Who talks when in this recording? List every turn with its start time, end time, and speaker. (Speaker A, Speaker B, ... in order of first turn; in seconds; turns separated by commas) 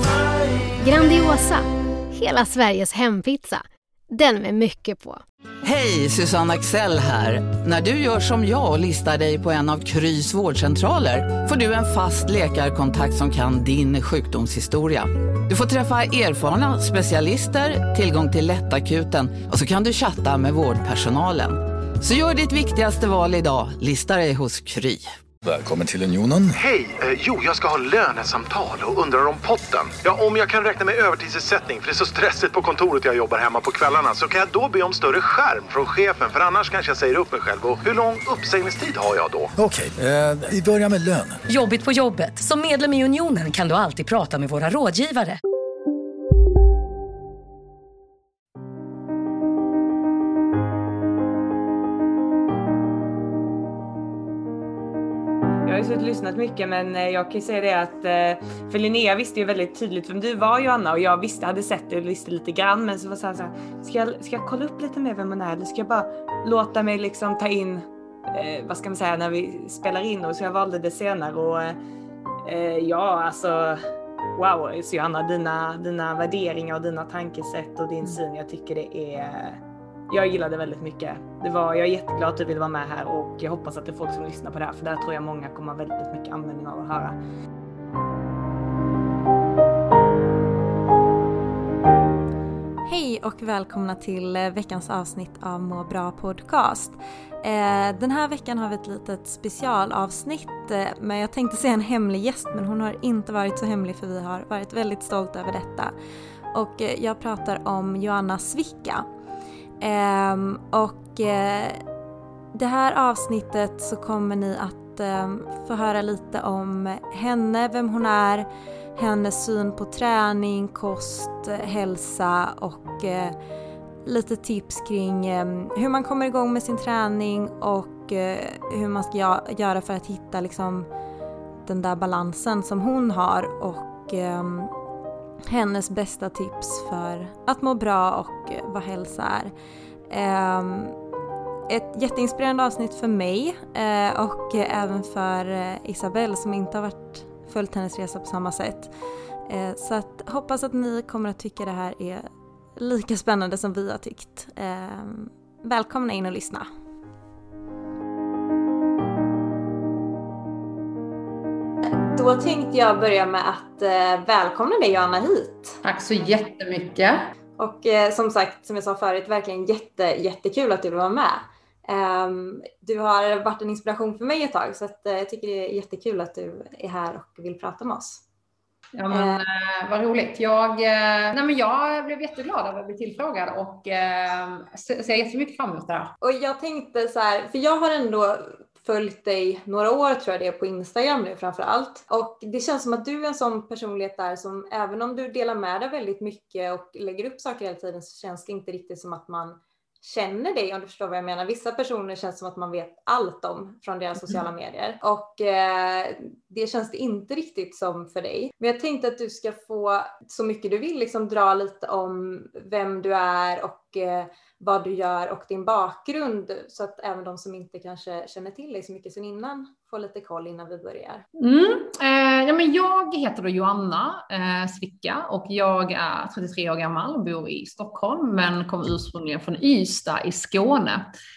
Speaker A: 0.8-5.2, Speaker B: 5.6-25.1, Speaker C: 25.4-26.6, Speaker D: 26.6-39.5, Speaker C: 39.5-41.4, Speaker E: 41.5-45.4, Speaker F: 55.6-71.8, Speaker F: 72.4-73.8, Speaker F: 74.3-87.2, Speaker G: 92.8-105.9, Speaker G: 106.5-109.0, Speaker G: 109.8-111.8, Speaker G: 112.5-123.3, Speaker G: 124.0-130.9, Speaker G: 131.7-134.7, Speaker G: 135.5-139.5, Speaker G: 140.1-140.9, Speaker G: 141.7-148.9, Speaker G: 149.5-156.7, Speaker G: 162.0-165.8, Speaker H: 165.8-167.3, Speaker G: 167.6-178.2, Speaker H: 178.9-186.1, Speaker G: 179.1-179.4, Speaker G: 186.2-221.2, Speaker H: 221.4-231.0